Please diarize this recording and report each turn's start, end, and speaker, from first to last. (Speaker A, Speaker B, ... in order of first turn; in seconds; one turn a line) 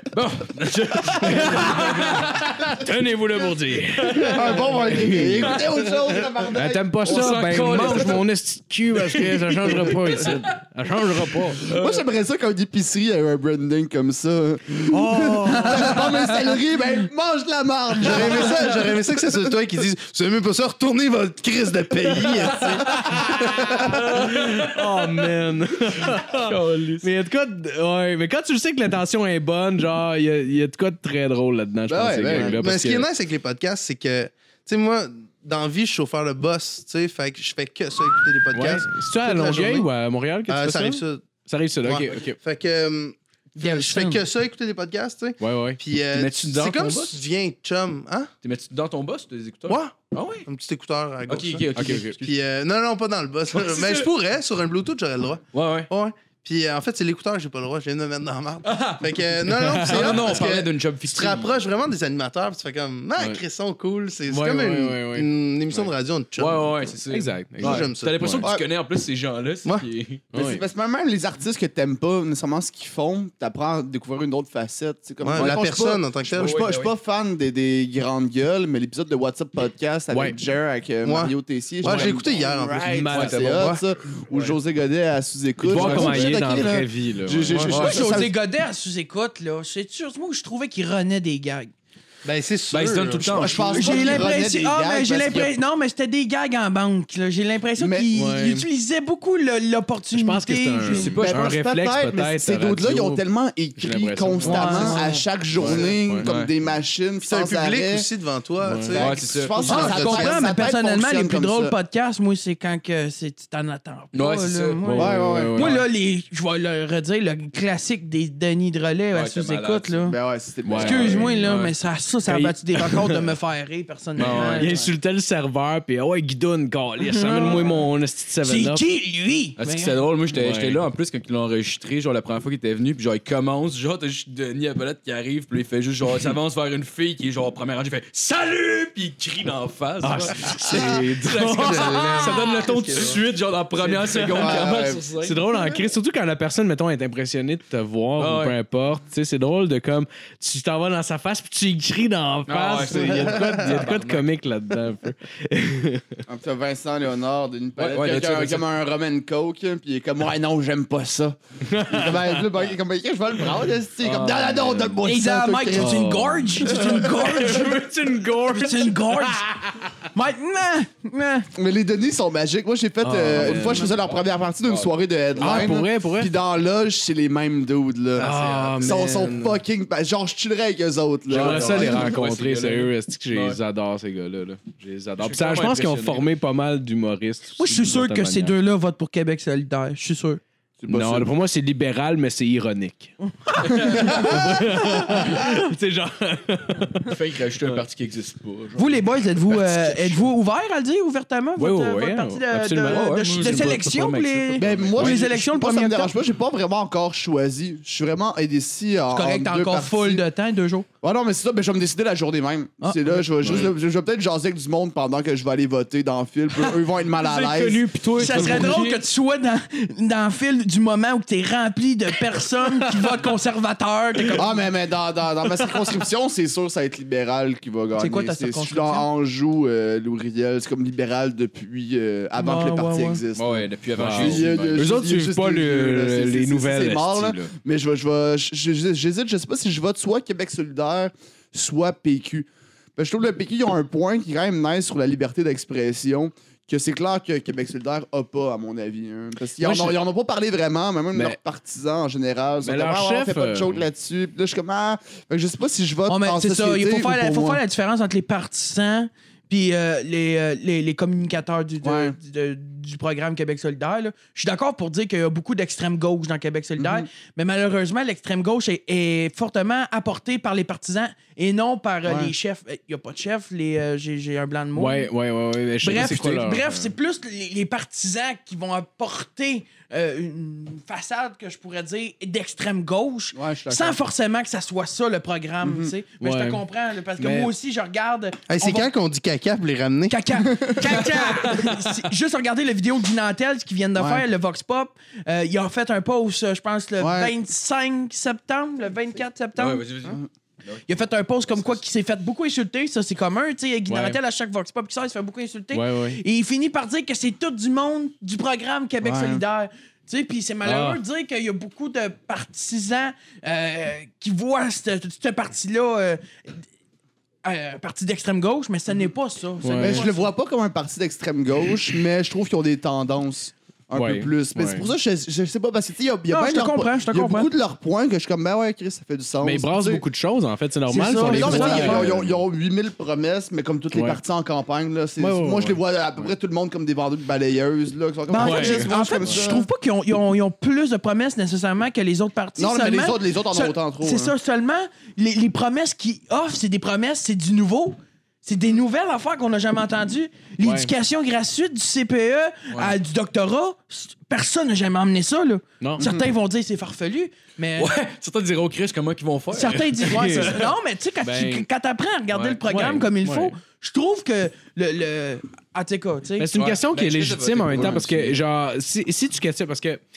Speaker A: 0.1-2.8
Speaker B: 1.1-5.6
Speaker A: 3.9-5.7
Speaker C: 4.2-7.5
Speaker B: 6.5-11.7
Speaker A: 7.0-8.2
Speaker A: 8.9-10.6
Speaker A: 11.4-12.0
Speaker C: 11.7-19.0
Speaker B: 14.9-16.1
Speaker D: 18.0-24.1
Speaker B: 22.8-33.0
Speaker A: 24.2-24.9
Speaker A: 26.1-27.1
Speaker C: 31.9-32.6
Speaker D: 32.3-39.9
Speaker B: 38.5-42.4
Speaker D: 40.5-41.3
Speaker D: 41.8-48.3
Speaker E: 43.5-44.2
Speaker B: 45.4-45.8
Speaker A: 46.1-47.2
Speaker A: 48.4-50.5
Speaker D: 49.7-67.0
Speaker A: 51.3-52.3
Speaker B: 51.8-52.2
Speaker A: 53.5-54.1
Speaker A: 55.5-55.9
Speaker A: 58.6-59.0
Speaker B: 59.6-60.4
Speaker A: 59.6-61.5
Speaker B: 64.3-65.8
Speaker A: 66.4-70.2
Speaker B: 67.1-68.4
Speaker D: 67.6-68.4
Speaker B: 70.3-70.6
Speaker C: 70.3-88.3
Speaker D: 75.2-76.6
Speaker A: 76.4-76.9
Speaker D: 81.0-83.8
Speaker B: 81.8-82.1
Speaker B: 82.8-83.7
Speaker A: 84.3-84.6
Speaker B: 85.6-87.9
Speaker A: 85.7-86.7
Speaker A: 87.4-88.0
Speaker E: 87.8-91.7
Speaker D: 92.2-94.2
Speaker A: 92.7-93.9
Speaker C: 93.3-95.5
Speaker E: 93.7-101.1
Speaker C: 97.8-98.1
Speaker B: 98.1-98.7
Speaker B: 100.1-103.2
Speaker A: 100.9-101.5
Speaker C: 101.1-108.0
Speaker B: 103.8-105.0
Speaker E: 104.4-105.2
Speaker A: 105.5-106.5
Speaker B: 105.6-106.3
Speaker D: 107.2-110.5
Speaker B: 108.6-109.0
Speaker C: 108.9-111.7
Speaker A: 108.9-109.9
Speaker E: 109.7-120.2
Speaker A: 114.1-114.8
Speaker B: 114.8-115.9
Speaker C: 115.0-115.7
Speaker A: 119.1-120.0
Speaker C: 120.1-121.4
Speaker B: 120.7-121.7
Speaker E: 120.7-124.7
Speaker B: 122.2-123.3
Speaker A: 124.2-124.7
Speaker B: 124.2-128.8
Speaker C: 124.6-124.9
Speaker E: 127.0-127.7
Speaker E: 128.4-130.0
Speaker A: 129.6-145.4
Speaker B: 130.3-130.8
Speaker B: 140.0-142.4
Speaker D: 140.7-140.9
Speaker D: 141.4-143.2
Speaker B: 143.8-156.2
Speaker C: 144.2-145.0
Speaker A: 148.2-148.6
Speaker A: 152.5-154.2
Speaker D: 153.1-153.8
Speaker C: 156.3-166.0
Speaker A: 157.8-158.6
Speaker B: 161.7-162.4
Speaker B: 164.0-164.9
Speaker E: 165.0-167.8
Speaker B: 165.7-170.0
Speaker E: 168.5-169.5
Speaker E: 170.1-171.5
Speaker C: 171.5-182.2
Speaker B: 173.0-173.9
Speaker A: 173.4-175.8
Speaker B: 175.4-176.3
Speaker D: 178.2-179.1
Speaker B: 178.2-179.6
Speaker B: 181.3-188.6
Speaker A: 181.3-183.6
Speaker A: 185.2-186.2
Speaker E: 187.6-190.4
Speaker C: 190.8-191.2
Speaker B: 190.9-197.8
Speaker E: 193.2-195.5
Speaker A: 197.1-200.2
Speaker E: 198.8-206.1
Speaker B: 201.6-203.8
Speaker A: 202.9-205.2
Speaker C: 204.6-210.2
Speaker E: 209.1-210.8
Speaker C: 211.0-217.8
Speaker E: 212.8-213.2
Speaker A: 217.1-219.0
Speaker E: 218.2-224.6
Speaker C: 224.3-257.6
Speaker E: 227.9-229.1
Speaker E: 232.3-233.2
Speaker A: 233.3-234.8
Speaker B: 234.0-237.5
Speaker B: 249.6-250.0
Speaker B: 252.6-253.8
Speaker E: 256.1-275.1
Speaker C: 261.8-262.1
Speaker C: 266.8-267.1
Speaker C: 272.0-272.3
Speaker B: 274.7-276.9
Speaker E: 275.8-288.9
Speaker C: 283.3-284.0
Speaker C: 285.6-285.9
Speaker B: 286.2-286.6
Speaker B: 287.2-287.5
Speaker D: 288.5-290.2
Speaker E: 290.1-299.9
Speaker C: 290.5-290.8
Speaker C: 293.9-294.2
Speaker C: 297.0-297.3
Speaker A: 299.6-301.8
Speaker E: 300.9-316.6
Speaker B: 303.9-304.2
Speaker B: 305.7-306.2
Speaker C: 309.0-309.4
Speaker B: 310.6-311.0
Speaker E: 317.4-320.3
Speaker B: 319.6-320.0
Speaker C: 319.8-330.0
Speaker B: 323.9-324.9
Speaker E: 326.3-327.5
Speaker B: 329.4-332.3
Speaker E: 330.9-332.1
Speaker C: 331.2-339.6
Speaker B: 333.9-334.2
Speaker B: 335.2-335.8
Speaker E: 338.3-357.9
Speaker B: 338.4-339.5
Speaker C: 342.6-344.3
Speaker B: 350.6-350.9
Speaker B: 355.8-356.1
Speaker C: 356.0-356.2
Speaker A: 357.8-360.6
Speaker E: 359.5-366.5
Speaker B: 360.0-360.7
Speaker B: 361.2-361.7
Speaker A: 362.3-362.6
Speaker B: 362.6-363.6
Speaker B: 366.4-370.0
Speaker A: 366.5-368.4
Speaker C: 367.7-368.0